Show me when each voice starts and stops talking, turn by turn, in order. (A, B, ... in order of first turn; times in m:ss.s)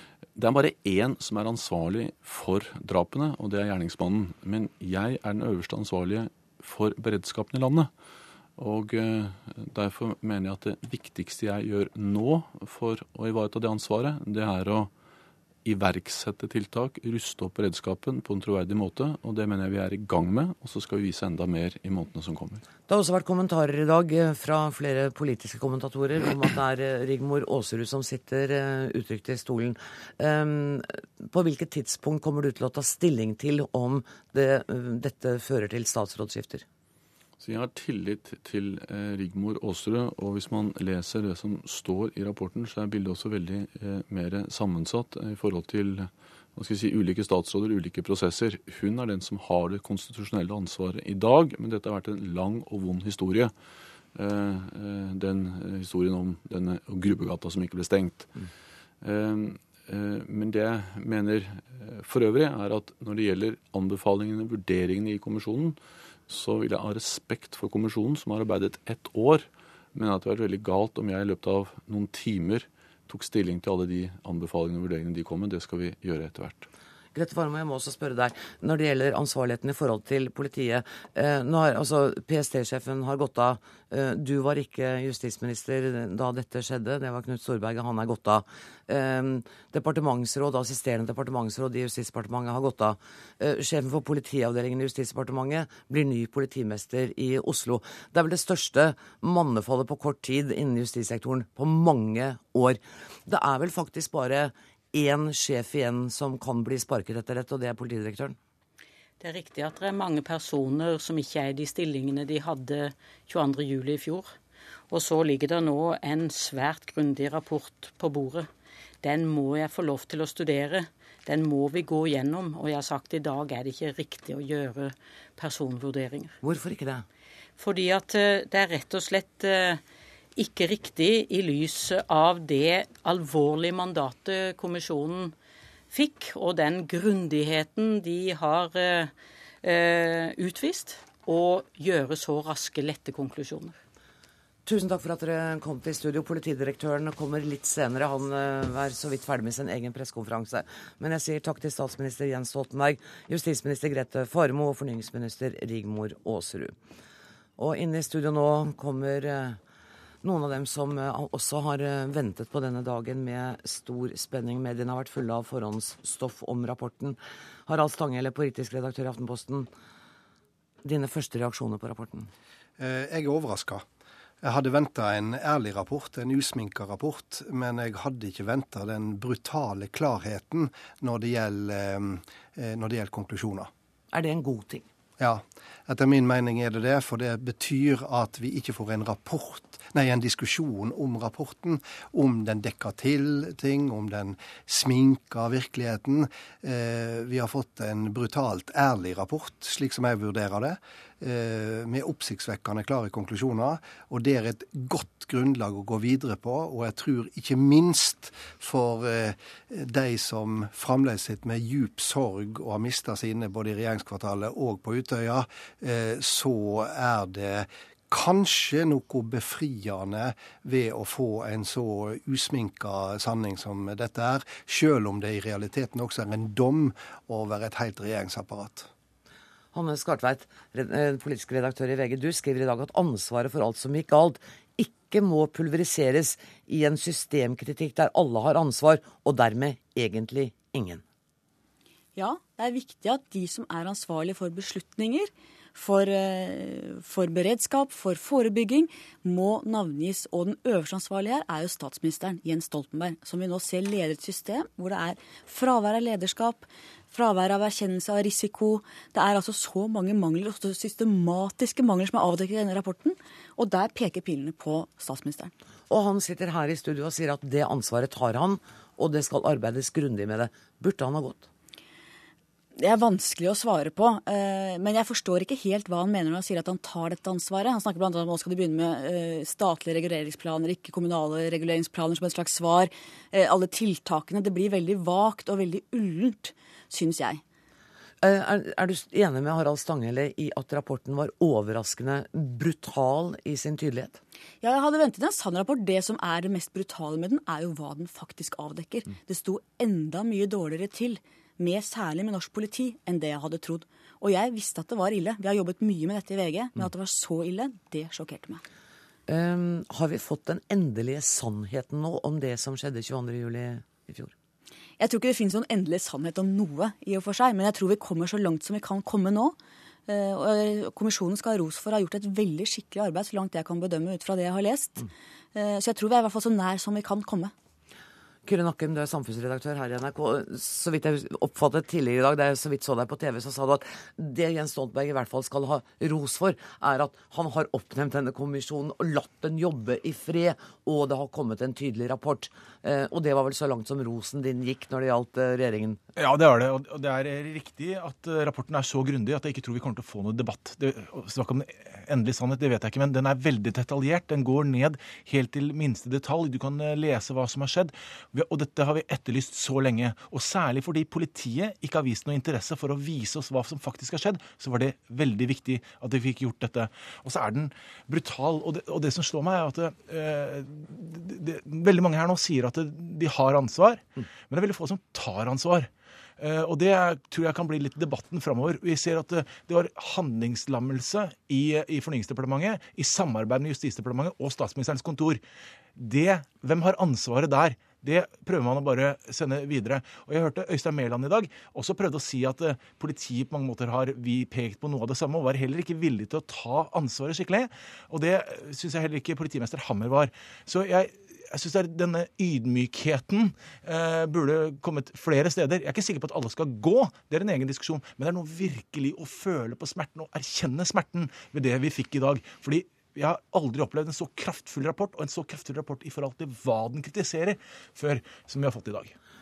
0:00.4-0:07.9 A
0:08.6-0:14.9 A
0:15.6-0:22.6 A
0:22.9-0:36.6 B
0:37.4-0:53.5 A
0:54.1-0:58.3 A
0:59.0-1:16.7 A
1:17.1-1:48.4 B
1:49.2-1:54.3 C
1:54.9-1:58.5 C
1:59.0-2:06.4 C
2:06.4-2:07.0 B
2:07.6-2:09.8 C
2:10.4-2:15.3 C
2:15.9-2:19.1 C
2:19.6-2:23.8 C
2:24.7-2:36.8 B
2:37.6-2:39.6 B
2:40.2-2:49.7 B
2:50.8-2:52.3 B
2:52.8-2:53.8 D
2:54.4-3:03.7 D
3:04.1-3:04.9 B
3:05.2-3:48.9 D
3:49.7-4:01.0 B
4:02.2-4:25.5 E
4:25.9-4:31.5 B
4:32.8-4:47.4 E
4:48.2-4:54.2 B
4:54.6-5:08.6 E
5:09.3-5:14.3 B
5:15.0-5:19.6 E
5:20.1-5:27.5 E
5:28.4-5:46.0 B
5:46.2-6:25.4 F
6:26.0-6:59.2 F